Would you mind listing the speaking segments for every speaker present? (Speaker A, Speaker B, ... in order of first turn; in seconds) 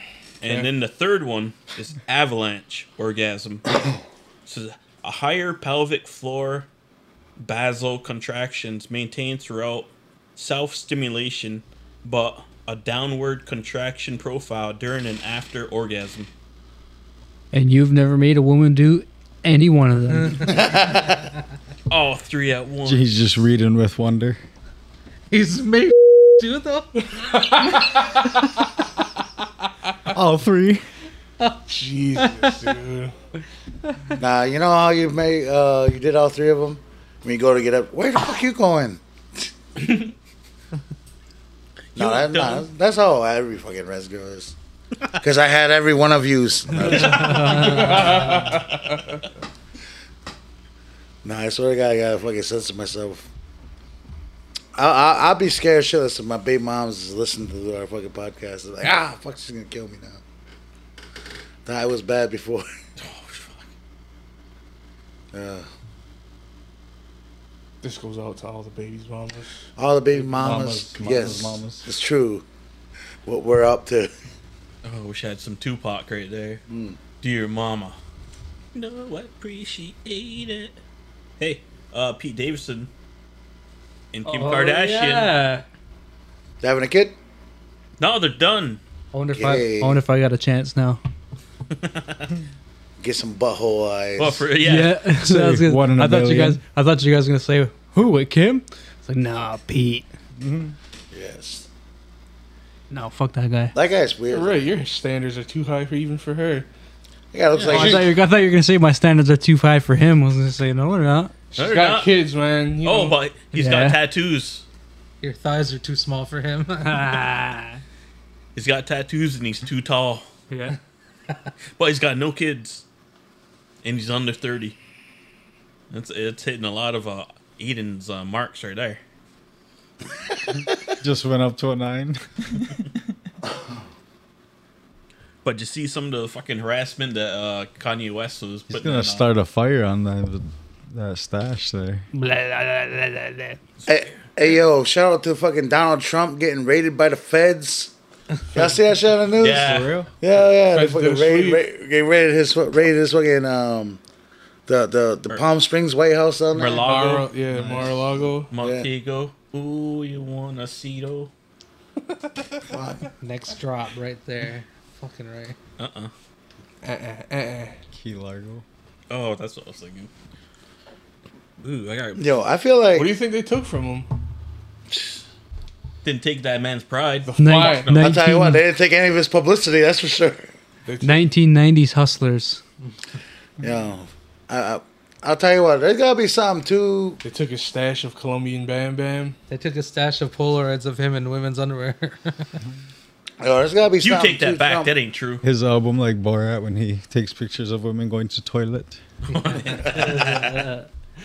Speaker A: 0.4-3.6, 4.5-6.7, 7.4-16.3, 21.9-23.1, 41.9-42.7, 46.8-47.4, 63.0-63.6, 74.8-76.6, 77.2-78.0, 78.7-80.8, 81.4-82.9, 84.1-85.3, 88.0-88.8, 91.7-92.3, 94.2-95.0, 111.5-112.1, 112.8-114.6, 118.5-120.2, 121.8-122.8, 123.8-124.8, 125.9-129.0, 135.4-139.3, 149.4-150.0, 156.5-157.3, 158.5-161.3, 165.8-166.1, 169.1-170.1, 171.6-172.3, 176.0-178.1, 194.0-195.4, 199.3-200.7
Speaker B: 0.4-0.7, 27.3-27.8, 31.7-33.1, 47.1-49.2, 67.8-69.5, 104.3-106.7, 107.7-108.1, 111.5-113.2, 150.7-151.6, 156.8-158.5, 166.8-167.7, 172.9-174.1, 177.2-178.0, 180.9-181.2, 187.2-189.4
Speaker C: 17.5-20.8, 47.0-48.2, 84.2-85.6, 89.1-91.0, 94.6-100.1, 102.9-103.7, 107.6-111.3, 113.5-114.0, 116.8-117.8, 120.5-120.8, 142.1-143.6, 177.4-178.6, 181.0-182.6, 200.0-200.6
Speaker D: 20.2-20.7, 25.3-27.8, 32.2-32.5, 115.2-117.2, 163.2-165.6, 189.5-192.6
Speaker E: 22.8-24.4, 30.1-30.8, 70.3-71.9, 95.2-96.6, 100.4-100.8, 131.0-133.0, 138.7-142.1, 149.4-150.1, 157.5-158.2, 167.9-168.6, 195.4-199.0
Speaker F: 34.2-39.5, 42.0-44.5, 45.2-48.0, 51.2-53.3, 54.8-60.2, 61.6-62.6, 65.3-65.7, 69.8-72.4, 73.2-74.1, 76.7-77.0, 86.6-87.1, 89.3-90.0, 93.0-94.5, 101.1-101.7, 103.7-104.7, 107.3-108.1, 143.8-147.9, 148.5-154.0, 154.7-156.8, 158.6-158.9, 162.7-163.1, 172.2-173.1, 178.0-180.5, 183.6-187.2, 193.4-194.9, 199.9-200.1